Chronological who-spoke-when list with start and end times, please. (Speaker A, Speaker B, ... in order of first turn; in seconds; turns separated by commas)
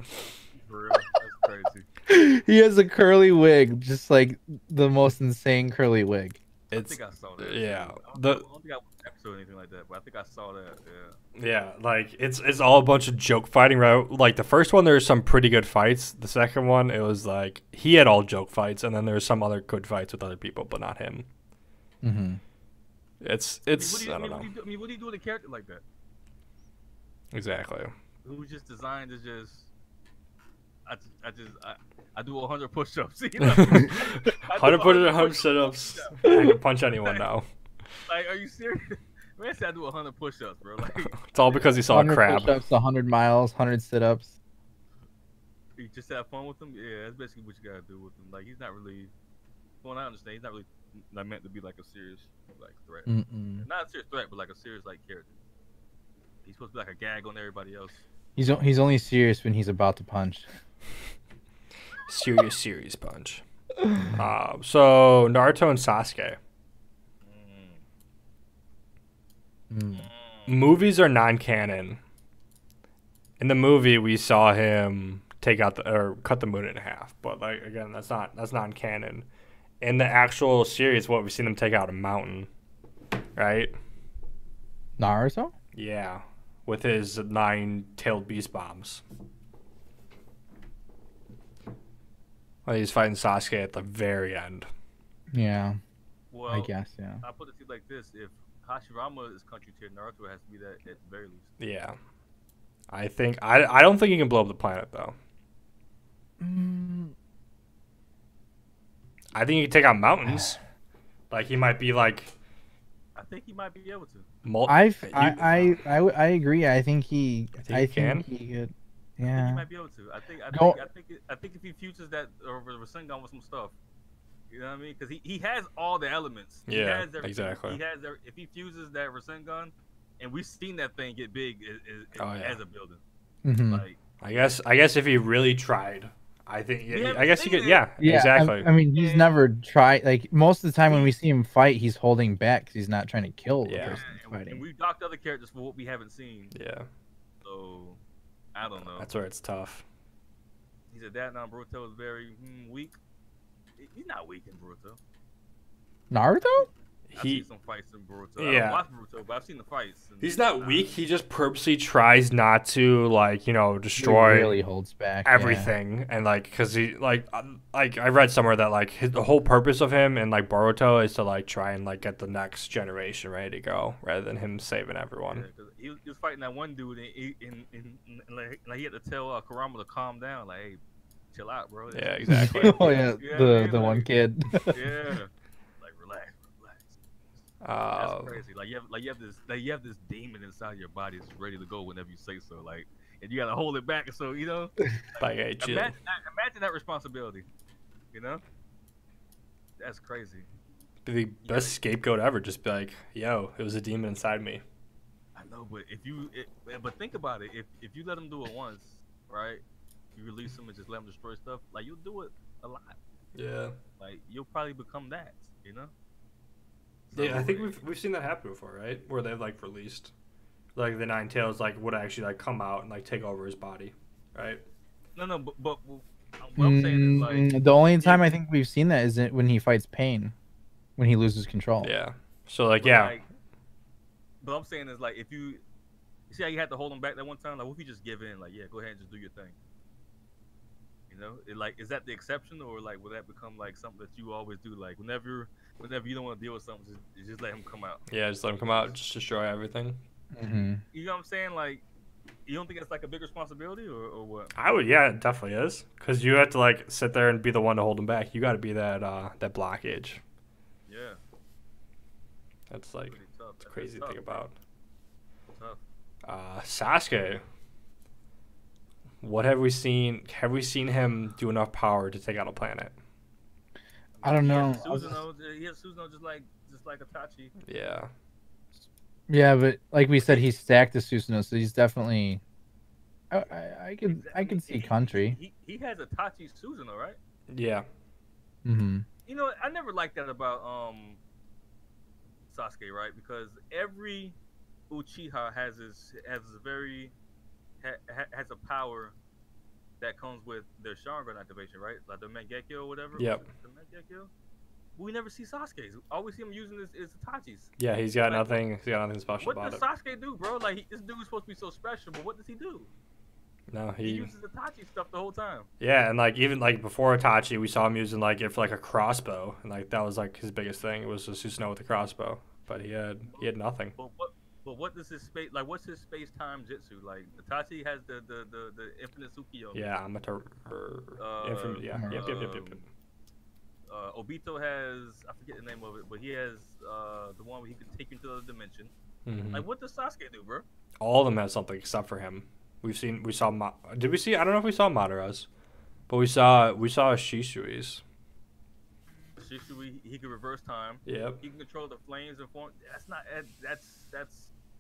Speaker A: 0.5-1.9, Speaker B: 2.1-6.4, Speaker C: 6.7-8.4, Speaker A: 6.7-11.2, Speaker C: 11.4-21.3, Speaker B: 22.0-22.4, Speaker C: 23.2-24.5, Speaker A: 23.7-25.8, Speaker C: 27.3-27.9, Speaker A: 28.2-29.7, Speaker A: 30.9-36.2, Speaker C: 33.5-37.5, Speaker B: 36.2-36.5, Speaker A: 38.1-41.9, Speaker C: 41.0-42.6, Speaker B: 41.9-44.4, Speaker A: 45.8-49.1, Speaker A: 49.8-55.3, Speaker B: 53.1-53.7, Speaker A: 56.5-58.0, Speaker B: 58.4-60.5, Speaker C: 62.1-63.4, Speaker C: 64.1-66.4, Speaker A: 67.2-67.8, Speaker B: 69.7-70.1, Speaker A: 69.9-70.7, Speaker C: 70.5-72.0, Speaker C: 73.4-79.3, Speaker C: 79.8-82.5, Speaker C: 83.4-83.7, Speaker B: 85.0-85.5, Speaker C: 85.7-89.0, Speaker C: 92.7-94.7, Speaker B: 95.3-95.8, Speaker A: 96.3-96.7, Speaker B: 96.5-97.2, Speaker A: 97.2-101.5, Speaker C: 101.6-102.0, Speaker C: 102.9-105.2, Speaker B: 106.4-107.1, Speaker C: 109.3-110.6, Speaker B: 110.3-110.5, Speaker C: 111.3-112.3, Speaker A: 113.2-114.3, Speaker C: 114.5-115.8, Speaker B: 114.7-119.6, Speaker C: 117.6-118.3, Speaker A: 119.3-123.8, Speaker B: 120.5-120.8, Speaker A: 124.5-133.0, Speaker C: 126.7-127.8, Speaker C: 132.2-132.6, Speaker B: 133.4-133.8, Speaker A: 133.7-134.0, Speaker C: 134.2-138.7, Speaker A: 136.9-137.9, Speaker B: 138.0-144.7, Speaker A: 138.9-139.4, Speaker A: 140.9-141.1, Speaker C: 143.7-144.0, Speaker A: 143.8-146.5, Speaker C: 146.5-146.9, Speaker A: 147.4-148.0, Speaker A: 148.6-149.1, Speaker C: 148.8-149.8, Speaker A: 150.9-153.0, Speaker A: 153.8-155.0, Speaker B: 156.1-156.7, Speaker C: 157.1-157.5, Speaker A: 157.2-160.9, Speaker C: 158.4-158.8, Speaker C: 160.2-164.6, Speaker B: 164.0-165.7, Speaker C: 165.2-175.5, Speaker A: 175.3-180.8, Speaker A: 181.3-184.1, Speaker C: 181.9-182.8, Speaker B: 182.3-184.9, Speaker A: 184.7-187.0, Speaker C: 187.6-188.4, Speaker A: 187.9-197.5, Speaker C: 195.2-195.9, Speaker A: 198.1-198.4, Speaker A: 199.8-200.5, Speaker C: 201.1-204.6, Speaker A: 201.4-201.8, Speaker A: 205.3-209.6, Speaker A: 210.2-213.0, Speaker C: 213.3-213.8, Speaker A: 214.0-215.9, Speaker A: 217.1-217.8, Speaker C: 217.1-220.1, Speaker C: 220.8-224.6, Speaker A: 225.2-228.3, Speaker B: 226.6-230.3, Speaker B: 231.0-231.9, Speaker C: 231.8-233.2, Speaker A: 232.8-233.2, Speaker A: 234.4-235.6, Speaker A: 236.3-239.6, Speaker A: 241.1-249.0, Speaker C: 248.1-250.0, Speaker B: 250.3-250.8, Speaker A: 250.9-251.8, Speaker A: 252.5-254.6, Speaker C: 254.6-260.2, Speaker A: 260.9-261.2, Speaker C: 262.7-263.2, Speaker A: 263.1-264.5, Speaker C: 263.7-264.6, Speaker A: 265.5-265.8, Speaker C: 266.2-267.4, Speaker C: 269.2-272.9, Speaker A: 274.1-277.5, Speaker B: 274.2-275.2, Speaker C: 277.7-278.1, Speaker B: 279.3-282.4, Speaker B: 283.3-285.4, Speaker A: 284.1-287.2, Speaker C: 287.5-287.9, Speaker B: 288.6-289.1, Speaker A: 289.3-291.2, Speaker A: 292.5-294.4, Speaker A: 294.9-297.1, Speaker A: 297.8-299.1, Speaker A: 300.0-304.3, Speaker C: 303.2-303.4, Speaker A: 305.0-307.7, Speaker C: 307.8-309.8, Speaker A: 308.3-308.6, Speaker A: 309.4-312.9, Speaker C: 313.7-314.3, Speaker A: 314.0-315.7, Speaker C: 315.8-324.0, Speaker A: 323.3-329.9, Speaker C: 329.7-332.9, Speaker A: 331.2-332.8, Speaker B: 331.9-332.2, Speaker A: 333.9-338.9, Speaker C: 339.3-339.6, Speaker A: 339.5-340.7, Speaker C: 341.0-345.5, Speaker C: 346.1-348.0, Speaker A: 349.4-354.5, Speaker C: 351.1-351.4